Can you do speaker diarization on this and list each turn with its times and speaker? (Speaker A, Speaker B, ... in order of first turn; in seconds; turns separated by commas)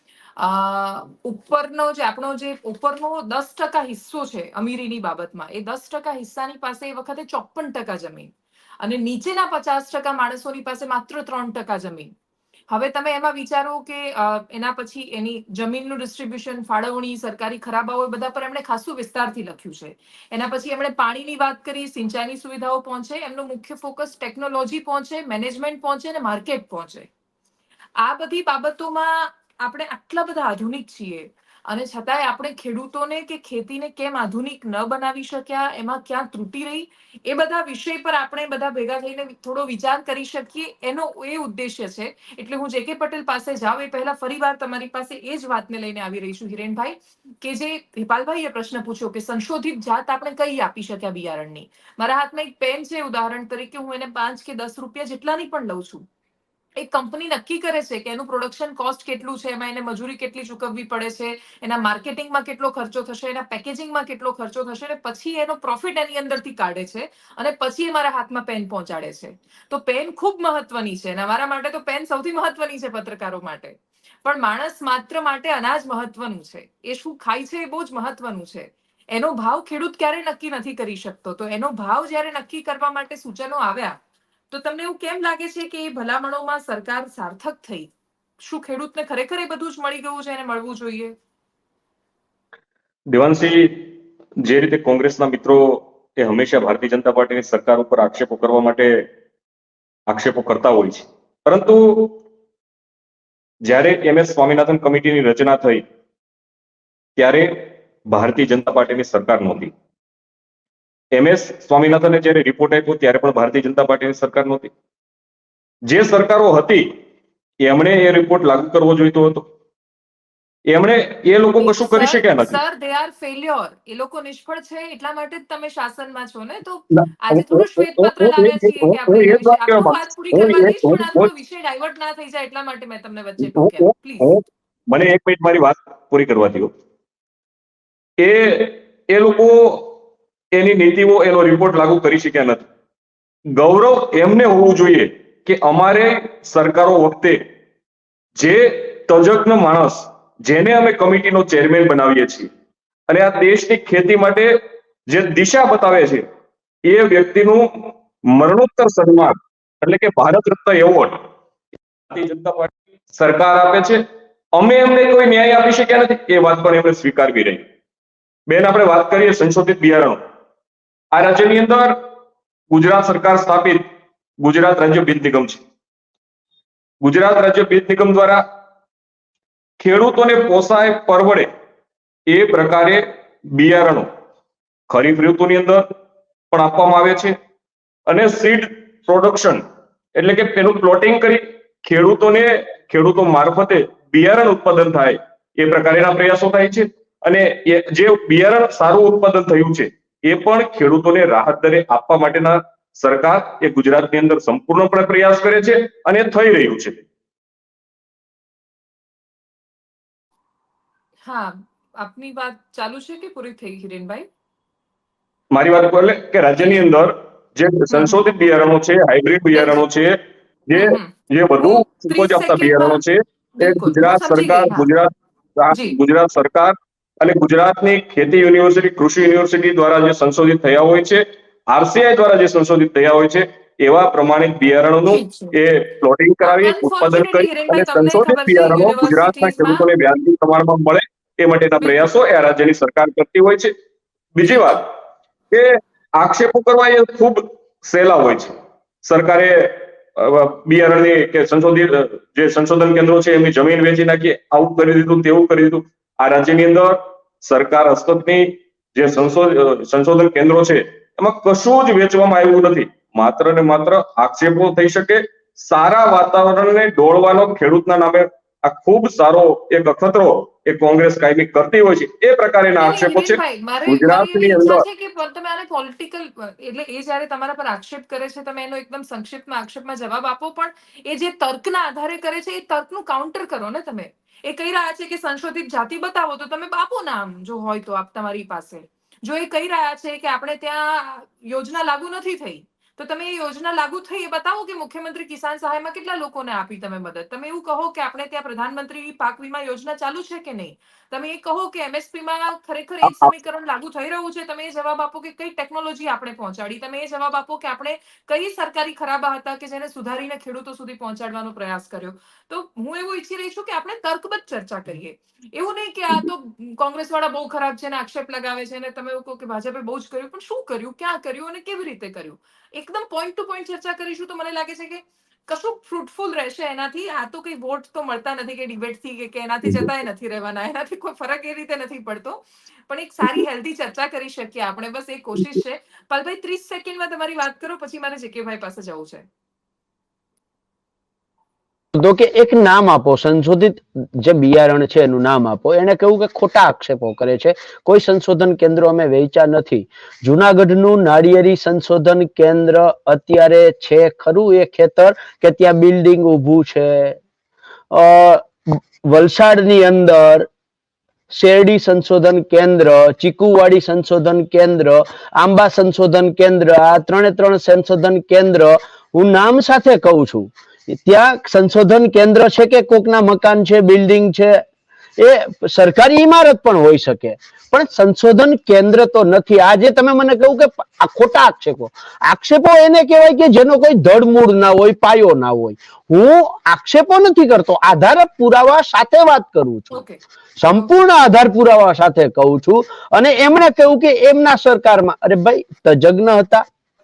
Speaker A: 0.4-8.3, Speaker A: 8.8-12.1, Speaker A: 12.7-27.1, Speaker A: 28.0-56.0, Speaker A: 56.8-84.0, Speaker A: 84.5-87.9, Speaker A: 88.4-91.1, Speaker B: 93.1-99.1, Speaker B: 100.1-102.2, Speaker B: 103.6-105.8, Speaker B: 107.2-109.7, Speaker B: 111.1-114.7, Speaker B: 115.9-116.9, Speaker B: 117.6-119.5, Speaker B: 120.7-122.6, Speaker A: 121.6-134.3, Speaker B: 126.9-131.3, Speaker B: 133.4-136.7, Speaker B: 138.2-140.0, Speaker B: 140.5-142.7, Speaker B: 143.6-147.4, Speaker B: 148.3-152.5, Speaker B: 153.1-156.2, Speaker B: 156.8-161.2, Speaker B: 162.1-164.0, Speaker B: 164.5-167.6, Speaker B: 168.5-170.2, Speaker B: 171.1-172.0, Speaker B: 172.7-173.9, Speaker B: 174.4-175.6, Speaker B: 177.0-178.4, Speaker B: 179.8-181.5, Speaker B: 182.3-184.1, Speaker B: 184.9-185.8, Speaker B: 186.5-187.3, Speaker B: 188.1-189.6, Speaker B: 190.2-207.0, Speaker A: 211.2-214.2, Speaker B: 215.5-220.2, Speaker A: 217.9-218.2, Speaker A: 219.5-219.8, Speaker B: 220.7-243.7, Speaker A: 220.7-223.0, Speaker A: 223.6-224.9, Speaker A: 225.7-226.0, Speaker A: 235.1-235.5, Speaker A: 236.4-239.9, Speaker A: 241.8-242.1, Speaker B: 244.3-244.9, Speaker B: 245.5-274.8, Speaker A: 272.8-339.2, Speaker B: 303.0-303.3, Speaker C: 341.9-357.2, Speaker C: 357.9-360.5, Speaker C: 361.3-374.6, Speaker C: 375.2-390.0, Speaker A: 389.9-390.2, Speaker C: 390.6-396.6